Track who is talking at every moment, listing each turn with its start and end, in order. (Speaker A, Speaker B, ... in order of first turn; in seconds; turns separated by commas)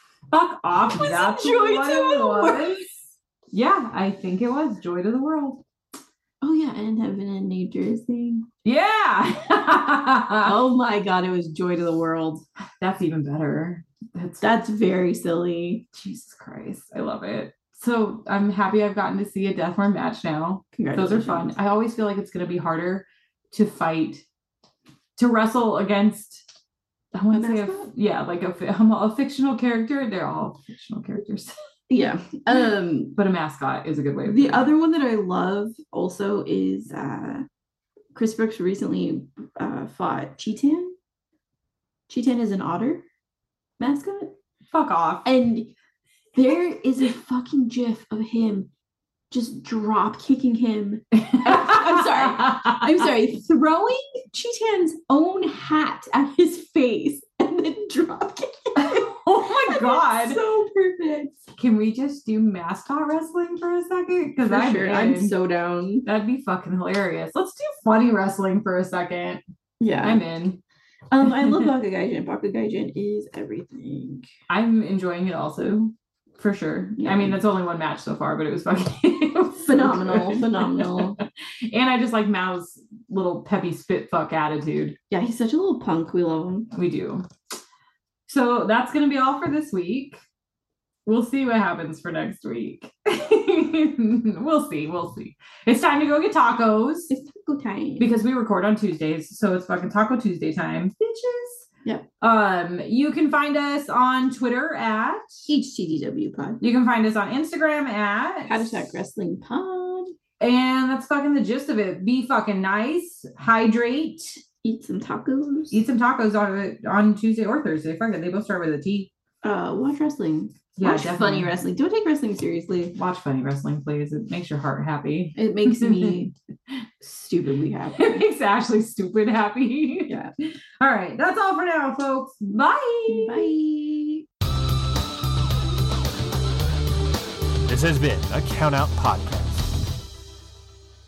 Speaker A: 0.3-2.9, Speaker B: 0.9-2.9, Speaker A: 3.5-5.6, Speaker B: 6.4-8.5, Speaker A: 8.7-10.6, Speaker B: 10.4-12.4, Speaker A: 12.8-14.5, Speaker B: 14.4-15.9, Speaker A: 15.9-24.2, Speaker B: 20.7-21.6, Speaker A: 25.2-26.5, Speaker A: 27.1-31.5, Speaker B: 27.3-27.9, Speaker B: 31.9-33.2, Speaker A: 33.2-34.7, Speaker B: 34.2-37.5, Speaker B: 38.1-41.0, Speaker B: 42.1-43.1, Speaker B: 43.8-44.3, Speaker A: 44.7-45.3, Speaker B: 45.2-45.7, Speaker B: 46.4-48.7, Speaker B: 49.3-61.4, Speaker A: 51.2-53.1, Speaker A: 58.8-60.4, Speaker A: 61.6-65.4, Speaker B: 64.5-66.1, Speaker A: 66.0-69.4, Speaker B: 69.8-70.3, Speaker A: 70.0-70.6, Speaker B: 71.1-74.3, Speaker A: 71.4-71.7, Speaker A: 74.5-85.0, Speaker B: 77.0-77.4, Speaker B: 79.6-81.2, Speaker B: 85.1-86.7, Speaker A: 86.7-87.3, Speaker A: 88.3-90.2, Speaker A: 91.1-97.1, Speaker B: 97.1-98.1, Speaker A: 98.0-101.7, Speaker A: 102.2-105.5, Speaker B: 105.5-106.6, Speaker A: 106.6-108.9, Speaker B: 108.5-110.1, Speaker A: 110.4-114.4, Speaker B: 114.6-115.8, Speaker A: 115.7-119.1, Speaker B: 119.4-123.0, Speaker A: 120.8-121.5, Speaker A: 122.9-126.3, Speaker B: 125.3-126.3, Speaker B: 127.0-128.2, Speaker A: 128.0-133.6, Speaker B: 130.1-130.3, Speaker B: 133.1-134.2, Speaker C: 137.7-139.7